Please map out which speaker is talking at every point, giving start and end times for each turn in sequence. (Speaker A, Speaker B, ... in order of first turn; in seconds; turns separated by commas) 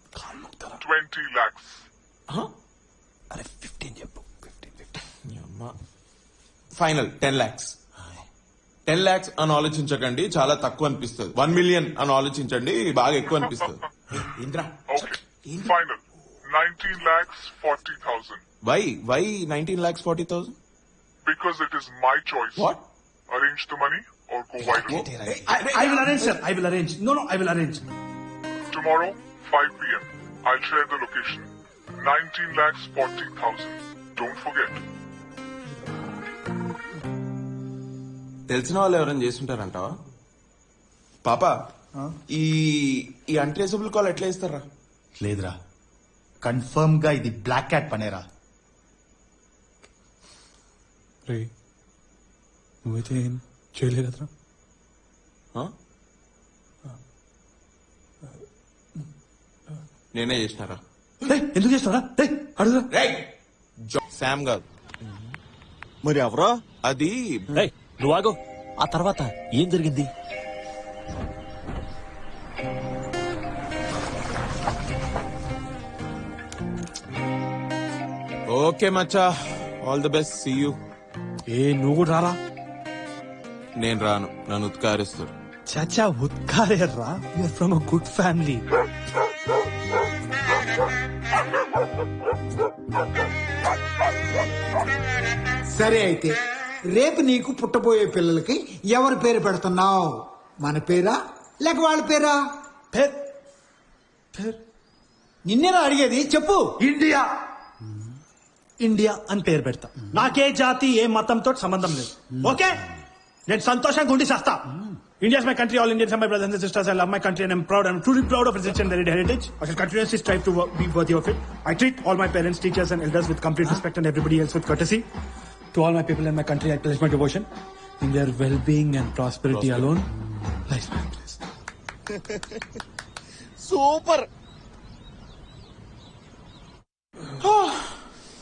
Speaker A: 0.3-0.7, Speaker B: 0.9-1.7, Speaker A: 3.3-4.7, Speaker C: 5.3-5.7, Speaker C: 6.8-7.8, Speaker C: 8.9-15.5, Speaker B: 14.9-16.0, Speaker B: 16.5-18.4, Speaker C: 18.6-20.5, Speaker B: 21.2-22.6, Speaker C: 22.5-22.8, Speaker B: 23.3-25.0, Speaker D: 24.6-25.8, Speaker C: 24.9-25.8, Speaker A: 25.3-27.9, Speaker B: 28.7-31.5, Speaker B: 32.0-34.8, Speaker C: 38.5-39.9, Speaker C: 41.2-41.5, Speaker C: 42.3-44.6, Speaker D: 45.2-45.5, Speaker D: 46.4-48.2, Speaker A: 52.8-54.3, Speaker C: 60.1-60.8, Speaker A: 61.2-62.9, Speaker C: 62.9-63.3, Speaker C: 63.9-64.6, Speaker C: 66.8-67.5, Speaker E: 67.5-70.1, Speaker C: 78.5-80.8, Speaker A: 81.5-82.4, Speaker C: 83.8-85.3, Speaker A: 85.7-88.6, Speaker F: 95.7-96.4, Speaker F: 96.9-102.4, Speaker A: 102.9-103.2, Speaker F: 105.4-106.7, Speaker A: 106.9-107.2, Speaker A: 108.8-112.8, Speaker A: 113.5-114.7, Speaker A: 115.2-125.0, Speaker A: 125.7-127.5, Speaker A: 128.0-130.1, Speaker C: 129.5-129.9, Speaker A: 130.7-131.4, Speaker C: 133.6-134.3, Speaker C: 137.4-137.9